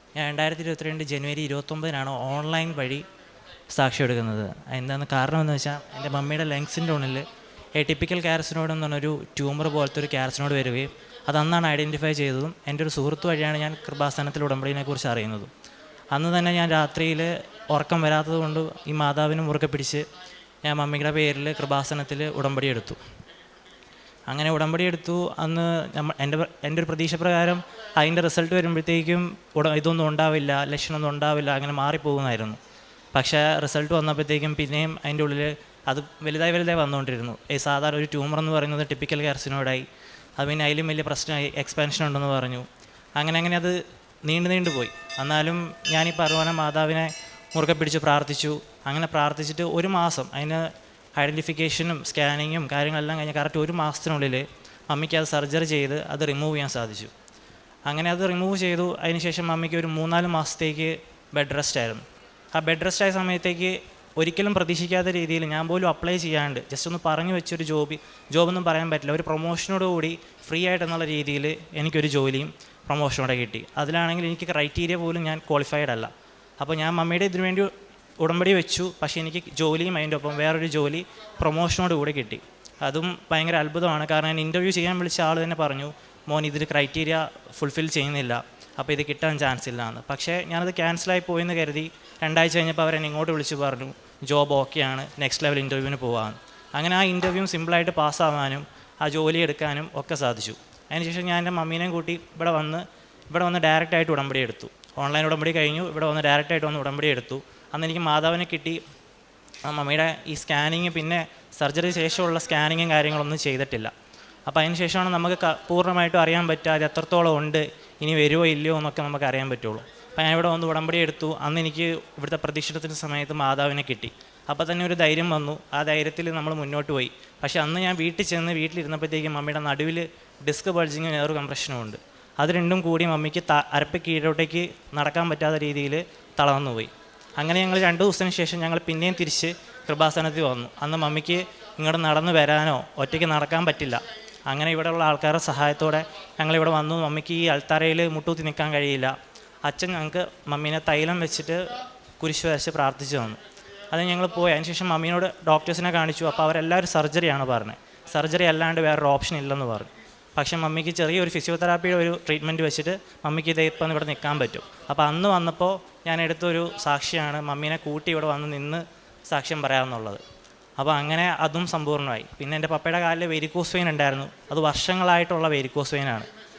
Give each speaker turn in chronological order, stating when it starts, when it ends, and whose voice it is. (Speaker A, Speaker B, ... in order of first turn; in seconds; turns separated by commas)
Speaker A: 0.1-3.0, Speaker A: 3.7-7.2, Speaker A: 7.8-15.5, Speaker A: 16.1-20.0, Speaker A: 20.6-23.0, Speaker A: 24.3-32.6, Speaker A: 33.1-39.8, Speaker A: 40.4-42.6, Speaker A: 43.2-50.6, Speaker A: 51.2-57.1, Speaker A: 57.9-62.0, Speaker A: 62.5-77.7, Speaker A: 78.2-108.8, Speaker A: 109.7-113.9, Speaker A: 114.5-149.1, Speaker A: 149.6-153.4, Speaker A: 153.9-170.2, Speaker A: 170.8-176.3